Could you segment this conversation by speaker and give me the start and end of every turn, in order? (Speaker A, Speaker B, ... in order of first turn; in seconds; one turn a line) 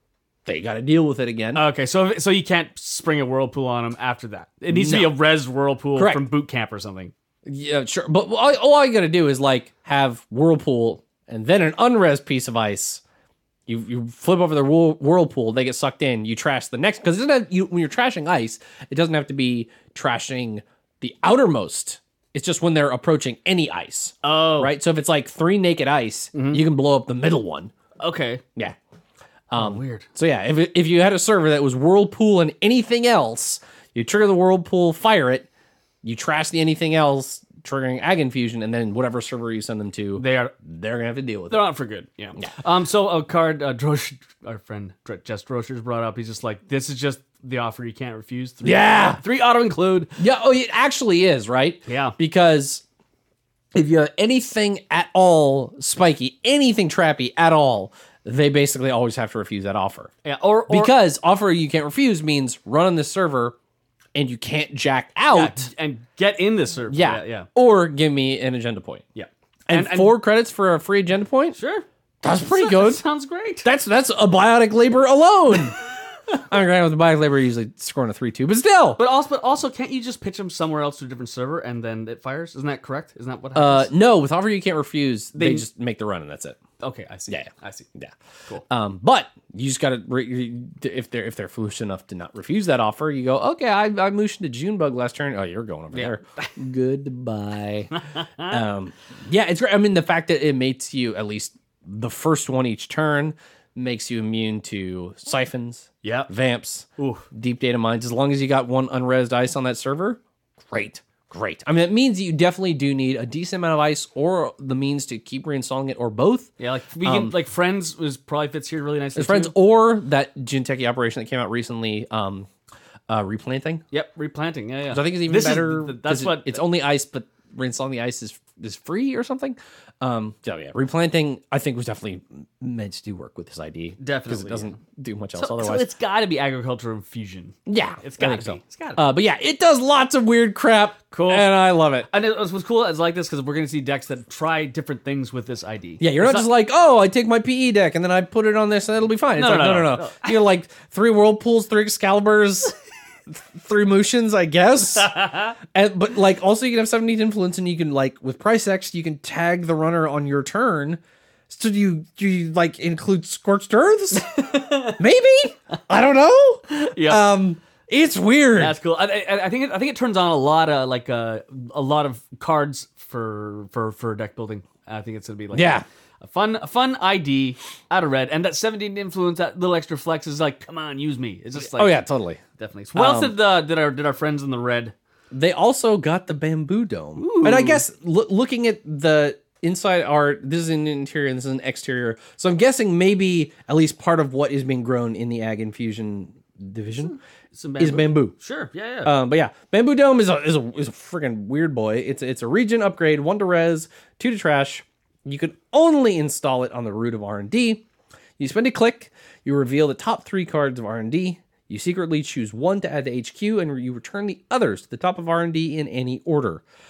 Speaker A: 0.5-1.6
Speaker B: 1.5-7.1
Speaker A: 4.7-5.1
Speaker A: 6.0-6.3
Speaker A: 7.4-13.0
Speaker A: 13.7-27.7
Speaker B: 24.2-24.7
Speaker B: 26.3-26.6
Speaker B: 28.0-28.4
Speaker A: 29.5-35.5
Speaker B: 29.5-30.1
Speaker A: 36.0-41.6
Speaker B: 40.1-40.5
Speaker B: 41.5-50.2
Speaker A: 48.6-49.2
Speaker A: 50.2-52.8
Speaker B: 51.9-52.1
Speaker A: 53.7-60.1
Speaker B: 60.2-60.9
Speaker A: 60.7-63.5
Speaker A: 64.1-65.7
Speaker B: 65.3-67.5
Speaker A: 66.9-69.0
Speaker B: 69.1-70.2
Speaker A: 69.7-71.6
Speaker B: 71.5-73.7
Speaker A: 72.2-73.0
Speaker A: 73.6-75.8
Speaker A: 76.3-79.0
Speaker B: 79.0-83.9
Speaker A: 83.5-86.6
Speaker B: 85.3-85.7
Speaker B: 86.8-87.9
Speaker A: 87.3-88.1
Speaker A: 88.7-97.9
Speaker B: 95.9-96.5
Speaker B: 97.9-98.6
Speaker A: 98.5-117.3
Speaker B: 106.0-106.3
Speaker B: 107.0-107.2
Speaker B: 116.6-119.5
Speaker A: 119.2-122.5
Speaker A: 123.1-123.8
Speaker B: 123.9-126.6
Speaker A: 124.9-135.9
Speaker B: 134.0-134.8
Speaker B: 135.3-139.0
Speaker A: 137.7-142.1
Speaker B: 141.1-141.5
Speaker B: 142.1-146.5
Speaker A: 146.0-152.7
Speaker B: 149.3-150.4
Speaker A: 153.3-155.1
Speaker B: 154.9-155.6
Speaker A: 155.6-168.8
Speaker B: 164.1-165.0
Speaker B: 166.7-167.2
Speaker B: 168.6-182.0
Speaker A: 175.5-175.8
Speaker A: 181.6-182.4
Speaker B: 182.6-184.9
Speaker A: 182.9-183.3
Speaker A: 185.3-197.2
Speaker B: 187.2-187.8
Speaker B: 197.1-199.1
Speaker A: 197.8-198.3
Speaker A: 199.0-207.8
Speaker A: 208.4-216.6